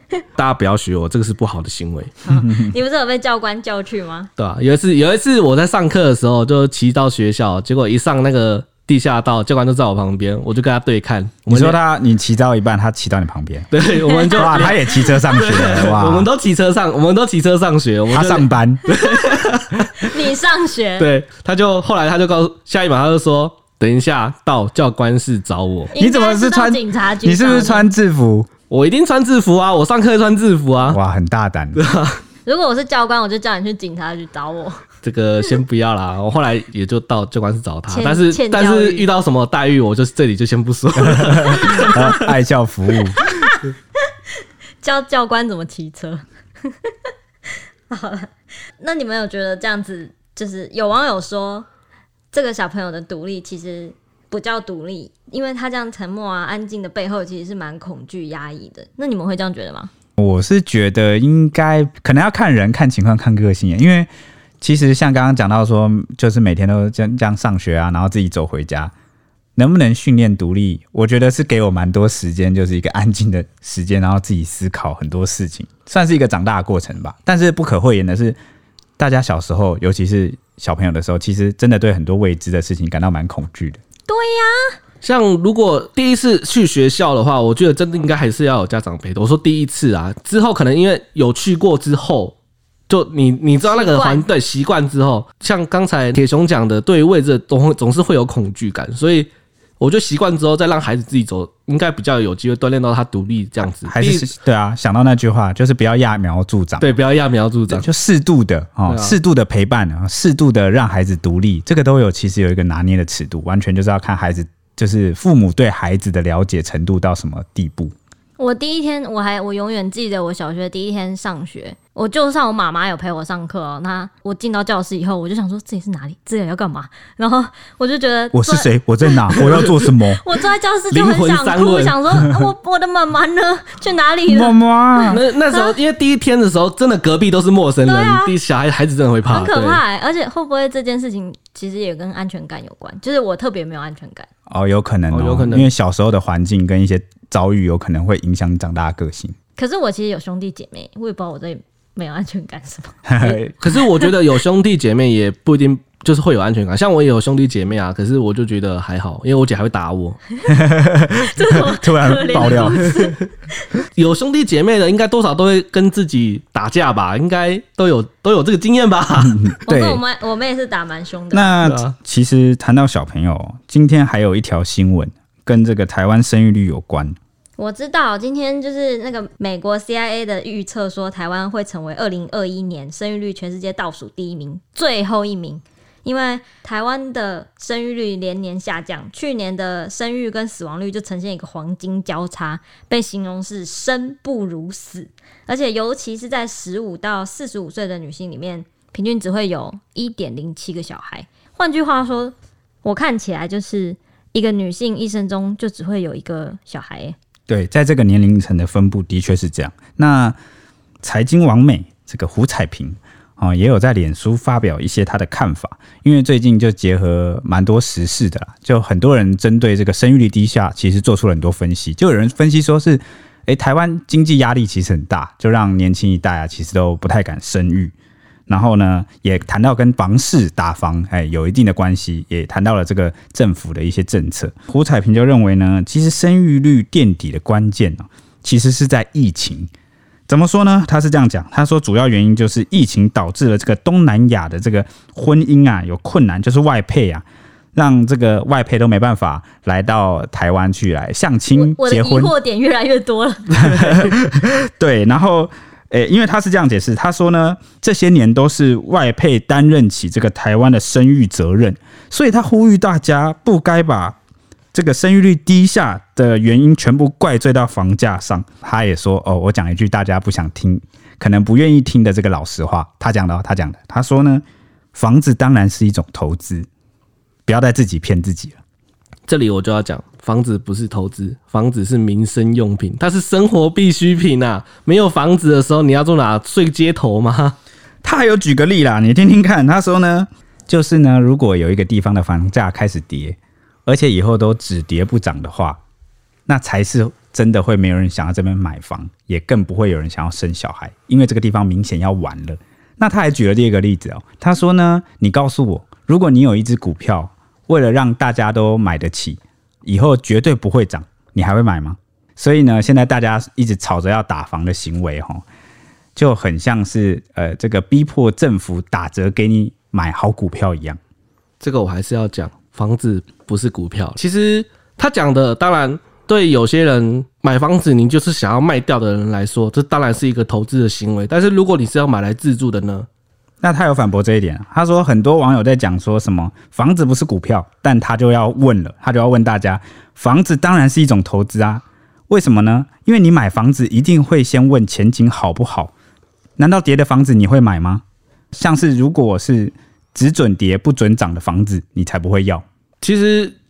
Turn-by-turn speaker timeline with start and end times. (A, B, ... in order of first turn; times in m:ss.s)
0:00.4-0:02.2 A
0:02.2-0:04.3 B
0:02.4-0:02.7 C
0:04.4-0:11.8 A
0:11.5-0:13.7 C
0:13.7-0:20.2 A
0:13.8-0:15.2 B
0:14.3-0:16.3 C
0:18.1-0:18.8 C
0:18.9-0:19.5 B
0:20.0-0:21.1 B
0:21.0-0:25.9 A
0:25.9-0:27.9 B
0:25.9-0:28.5 C
0:28.7-0:31.0 A
0:30.9-0:31.8 C
0:31.8-0:32.2 A
0:32.4-0:34.8 B
0:35.0-0:42.2 A
0:37.9-0:39.1 B
0:41.1-0:43.2 C
0:41.5-0:41.9 B
0:43.2-0:43.6 B
0:44.8-0:46.9 B
0:47.9-0:51.7 B
0:52.3-0:59.9 B
1:00.2-1:04.1 C
1:04.6-1:08.9 C
1:09.6-1:18.4 C
1:19.0-1:23.8 C
1:24.1-1:24.8 B
1:25.0-1:32.4 A
1:32.9-1:44.3 A
1:33.6-1:34.2 B
1:43.8-1:46.9 C
1:46.8-1:47.9 A
1:47.7-1:57.9 C
1:48.9-1:49.2 A
1:58.4-2:15.8 B
2:08.3-2:10.2 C
2:10.9-2:12.0 A
2:14.3-2:15.2 C
2:15.1-2:19.8 A
2:17.8-2:18.3 B
2:19.2-2:24.3 B
2:24.5-2:29.4 C
2:25.1-2:25.7 A
2:29.6-2:34.1 B
2:33.1-2:33.6 C
2:33.6-2:40.2 A
2:40.5-2:42.9 C
2:41.3-2:43.6 B
2:42.8-2:43.1 A
2:43.9-2:49.6 A
2:49.2-2:50.0 C
2:49.6-2:51.6 B
2:51.3-2:57.2 C
2:51.6-2:52.0 A
2:57.6-3:27.2 B
3:27.5-3:30.4 C
3:31.0-3:47.9 C
3:48.5-3:59.7 C
4:00.3-4:12.3 C
4:11.6-4:13.6 B
4:13.5-4:24.2 C
4:24.7-4:36.7 C
4:37.5-4:38.6 C
4:39.3-4:47.6 A
4:48.0-4:55.8 C
4:56.5-5:15.4 C
5:16.2-5:21.0 C
5:21.6-5:33.1 A
5:33.6-5:45.9 C
5:46.6-5:48.0 C
5:48.5-5:52.6 C
5:53.0-5:53.5 A